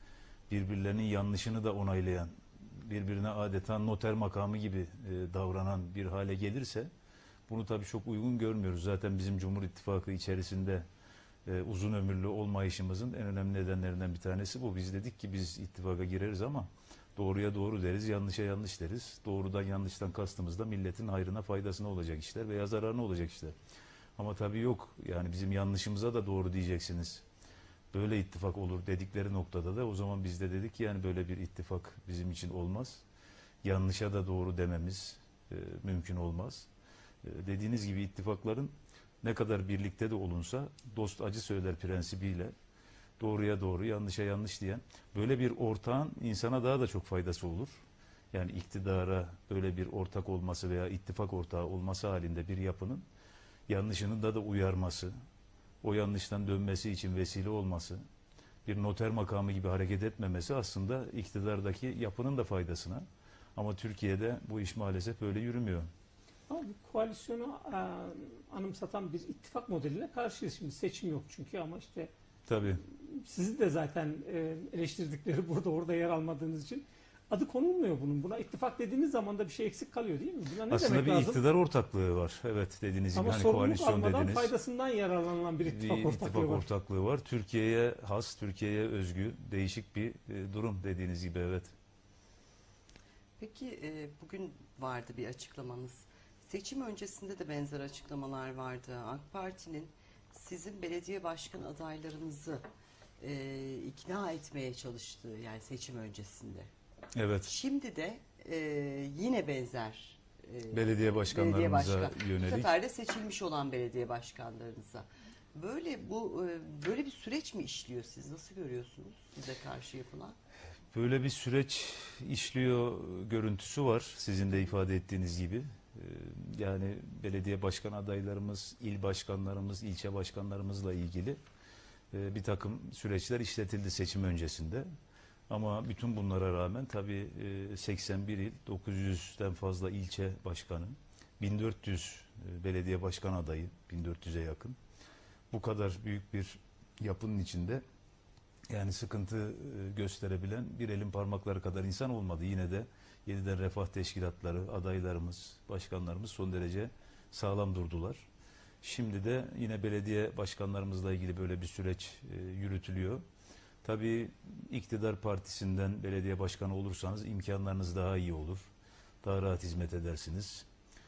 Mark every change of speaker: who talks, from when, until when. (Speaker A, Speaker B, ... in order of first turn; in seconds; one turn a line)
Speaker A: 0.5-6.9
Speaker A: 7.5-10.8
Speaker A: 11.4-23.5
Speaker A: 24.2-27.2
Speaker A: 27.9-33.0
Speaker A: 33.6-36.7
Speaker A: 37.2-38.7
Speaker A: 39.2-42.5
Speaker A: 43.2-47.7
Speaker A: 48.3-53.0
Speaker A: 53.7-55.1
Speaker A: 55.8-58.0
Speaker A: 58.6-63.0
Speaker A: 63.5-65.9
Speaker B: 66.5-72.1
Speaker A: 72.5-72.8
Speaker B: 72.9-81.4
Speaker A: 80.7-84.5
Speaker B: 83.1-86.7
Speaker A: 85.6-91.7
Speaker C: 93.4-102.6
Speaker C: 103.2-106.7
Speaker A: 107.1-107.5
Speaker C: 107.5-120.3
Speaker A: 110.7-112.7
Speaker A: 120.9-131.4
Speaker A: 132.1-134.9
Speaker A: 135.5-144.8
Speaker A: 145.5-147.8
Speaker A: 148.7-158.2
Speaker A: 158.8-163.2
Speaker A: 163.8-168.7
Speaker A: 169.2-170.7